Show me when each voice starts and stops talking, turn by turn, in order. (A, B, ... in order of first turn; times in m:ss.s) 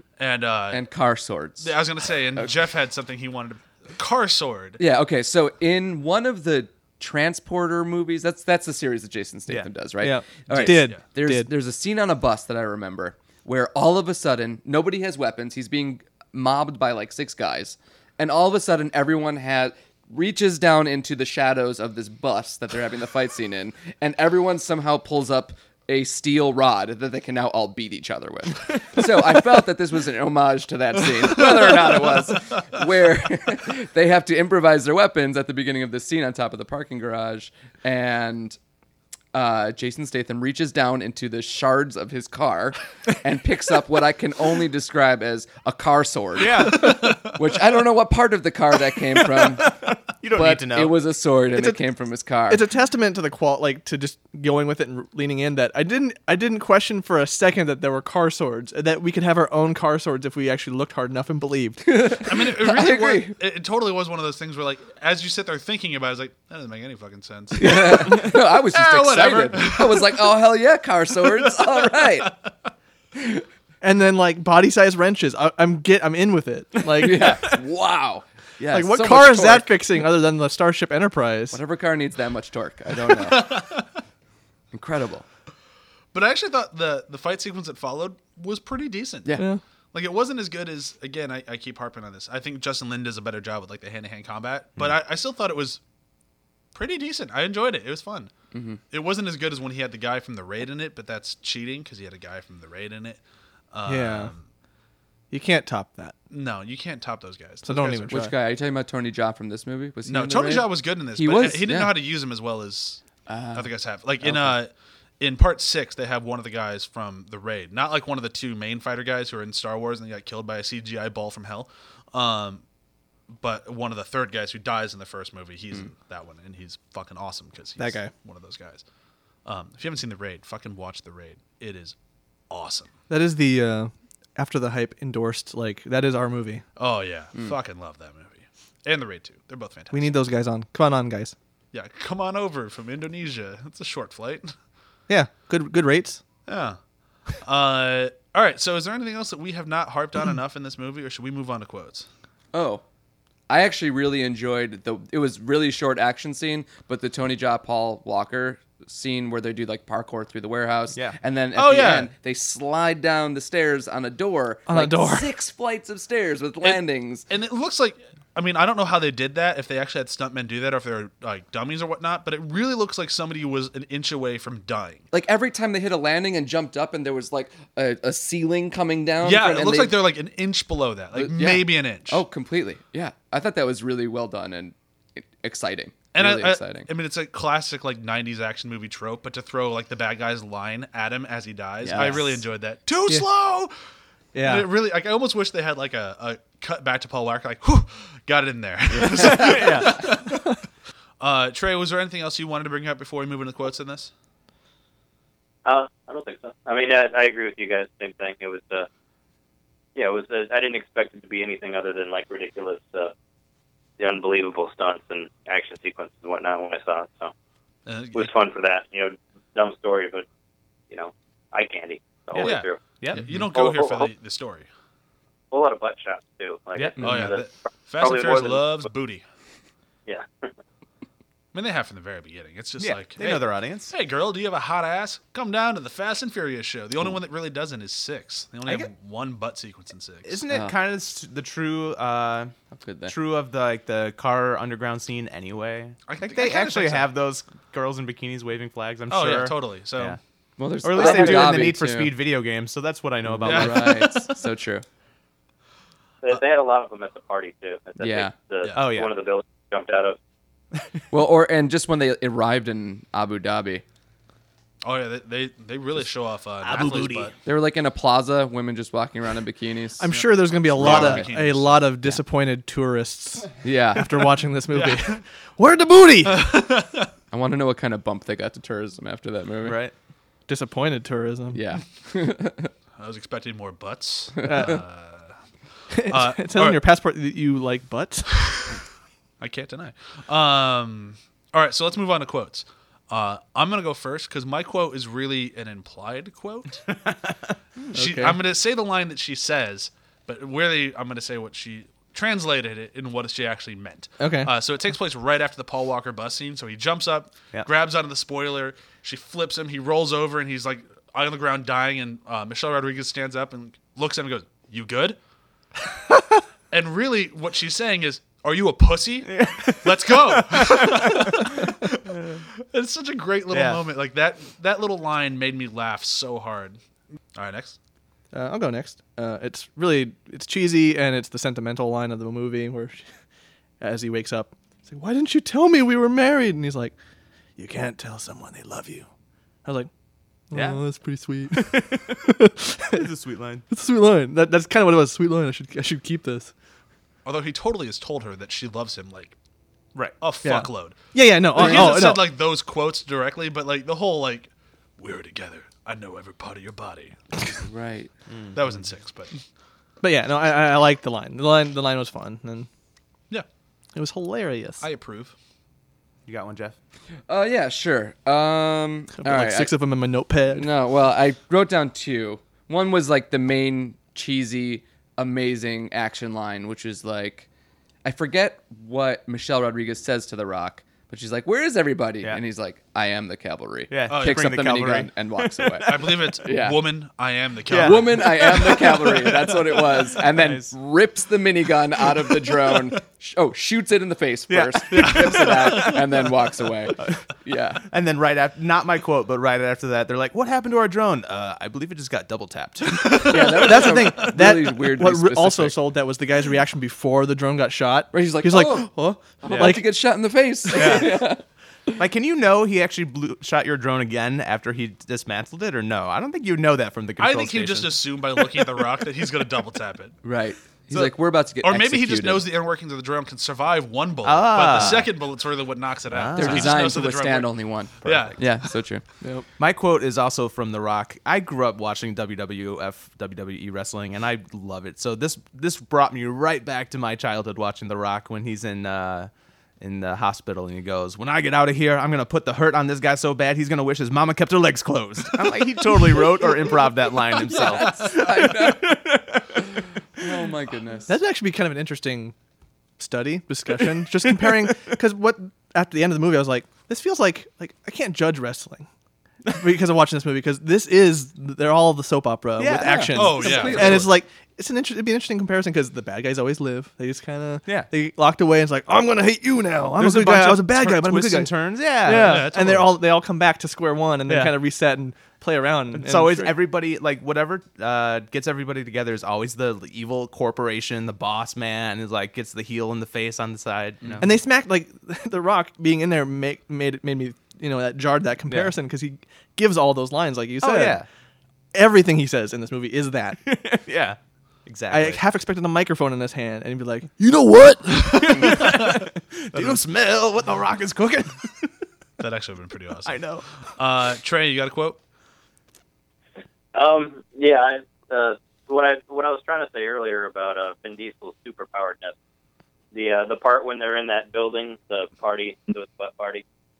0:00.2-0:00.8 A
0:00.7-0:01.8 B
0:01.6-0:04.8 A
0:04.8-0:38.6 B
0:10.0-0:11.5 C
0:10.5-0:11.0 A
0:39.3-0:49.8 B
0:46.4-0:47.1 D
0:46.7-0:47.2 A
0:49.1-0:51.0 D
0:50.3-0:52.6 B
0:52.5-1:02.0 C
1:01.8-1:03.4 B
1:02.2-1:10.3 A
1:07.5-1:12.3 B
1:11.4-1:12.4 A
1:13.1-1:13.4 B
1:13.8-1:17.6 C
1:16.9-1:19.7 B
1:18.7-1:21.6 C
1:21.5-1:23.6 B
1:23.2-1:23.9 A
1:24.7-1:25.2 B
1:26.1-1:29.4 A
1:29.9-1:35.8 A
1:36.7-1:38.3 A
1:38.5-1:38.8 B
1:38.9-1:43.2 A
1:43.7-1:44.4 A
1:43.9-1:44.3 C
1:45.3-1:46.2 C
1:46.3-1:48.2 A
1:47.6-1:48.3 C
1:48.1-1:51.9 B
1:50.0-1:53.0 A
1:53.3-1:53.7 B
1:53.5-2:02.6 A
1:54.2-1:54.6 B
2:03.4-2:08.8 A
2:07.8-2:08.1 C
2:09.4-2:11.9 A
2:12.5-2:12.9 A
2:13.1-2:16.6 C
2:16.8-2:20.1 A
2:19.9-2:21.3 C
2:21.7-2:24.5 A
2:25.1-2:26.2 C
2:26.5-2:26.8 A
2:27.4-2:32.1 A
2:32.5-2:32.8 B
2:33.5-2:47.3 B
2:41.5-2:42.1 A
2:44.7-2:45.3 C
2:46.6-2:55.0 A
2:55.1-3:00.0 B
2:59.2-3:02.2 A
3:01.1-3:06.9 B
3:06.1-3:13.7 A
3:11.8-3:12.4 B
3:14.3-3:14.7 C
3:14.4-3:20.5 A
3:18.9-3:20.0 B
3:19.2-3:20.1 D
3:21.2-3:24.1 A
3:25.6-3:28.9 E
3:29.9-3:33.1 E
3:34.0-3:37.3 E
3:37.8-3:38.3 A
3:38.1-3:40.2 E
3:40.9-3:42.8 E
3:42.3-3:43.3 D
3:42.4-3:44.7 A
3:43.5-3:44.1 E
3:45.5-3:47.5 E
3:47.0-3:49.2 A
3:48.0-3:48.8 E
3:50.0-3:50.5 E
3:51.5-4:00.4 A
3:52.8-3:53.9 D
3:58.6-3:58.9 D
4:00.2-4:02.5 D
4:00.5-4:00.7 B
4:02.7-4:03.1 B
4:03.1-4:10.2 D
4:06.1-4:07.1 A
4:09.1-4:10.2 A
4:10.6-4:12.1 B
4:10.8-4:14.3 D
4:13.2-4:14.8 B
4:13.4-4:14.1 A
4:16.2-4:20.2 E
4:18.0-4:18.3 B
4:18.7-4:19.1 D
4:21.1-4:23.8 B
4:24.8-4:27.3 A
4:26.6-4:27.3 D
4:27.4-4:30.1 B
4:30.0-4:36.5 C
4:30.1-4:31.9 A
4:30.7-4:31.3 B
4:33.6-4:34.3 B
4:34.7-4:35.2 A
4:36.2-4:37.1 A
4:37.3-4:39.8 B
4:39.6-4:39.9 D
4:40.5-4:41.6 C
4:41.5-4:42.7 B
4:43.0-4:45.3 A
4:44.4-4:44.7 B
4:44.4-4:44.8 C
4:45.9-4:48.6 C
4:46.1-4:46.8 A
4:48.4-4:48.7 A
4:49.4-4:56.9 A
4:57.0-4:57.5 D
4:57.9-4:58.4 C
4:57.9-5:15.2 A
5:04.2-5:04.5 C
5:16.7-5:26.8 A
5:19.3-5:22.4 D
5:23.5-5:23.8 D
5:27.3-5:27.8 A
5:28.3-5:33.0 C
5:33.8-5:36.9 C
5:37.6-5:39.1 C
5:40.5-5:43.1 C
5:40.5-5:40.8 D
5:41.5-5:42.4 D
5:42.9-5:43.6 D
5:43.7-5:46.5 C
5:47.2-5:49.4 A
5:50.2-5:57.2 A
5:50.4-5:52.3 C
5:57.6-5:58.1 B
5:58.3-5:58.7 D
5:58.5-5:59.3 A
6:00.0-6:02.7 C
6:04.0-6:04.8 C
6:04.8-6:05.3 A
6:06.2-6:06.8 D
6:07.3-6:09.7 B
6:09.2-6:10.7 C
6:10.5-6:17.5 B
6:18.0-6:26.9 B
6:23.9-6:26.3 D
6:24.1-6:24.5 A
6:25.8-6:28.6 A
6:27.7-6:30.7 D
6:27.8-6:37.8 B
6:34.5-6:36.3 D
6:35.0-6:35.9 A
6:37.0-6:37.2 D
6:37.8-6:43.6 D
6:43.0-6:44.1 A
6:43.2-6:45.8 B
6:43.6-6:49.8 C
6:48.1-6:52.0 B
6:49.5-6:49.8 D
6:50.7-6:51.2 D
6:52.0-6:58.7 D
6:57.2-7:00.2 A
7:00.2-7:02.4 B
7:01.6-7:07.5 A
7:04.2-7:05.1 D
7:06.1-7:06.9 D
7:06.3-7:09.0 B
7:08.0-7:08.7 A
7:09.6-7:30.2 D
7:27.4-7:29.0 B
7:30.1-7:31.2 B
7:31.1-7:32.3 C
7:33.0-7:38.9 C
7:33.8-7:34.8 D
7:39.5-7:56.5 C
7:42.6-7:44.0 D
7:43.1-7:44.1 A
7:43.4-7:44.1 B
7:49.9-7:52.5 D
7:52.1-7:53.0 A
7:54.2-7:54.6 D
7:55.9-8:04.3 D
8:04.0-8:04.3 A
8:04.2-8:11.0 C
8:08.5-8:08.8 D
8:10.6-8:11.1 D
8:11.7-8:13.4 C
8:13.4-8:15.2 D
8:14.9-8:18.6 C
8:17.9-8:19.8 A
8:18.1-8:21.7 D
8:22.2-8:25.0 A
8:23.0-8:23.4 D
8:26.7-8:32.1 E
8:32.9-8:36.4 E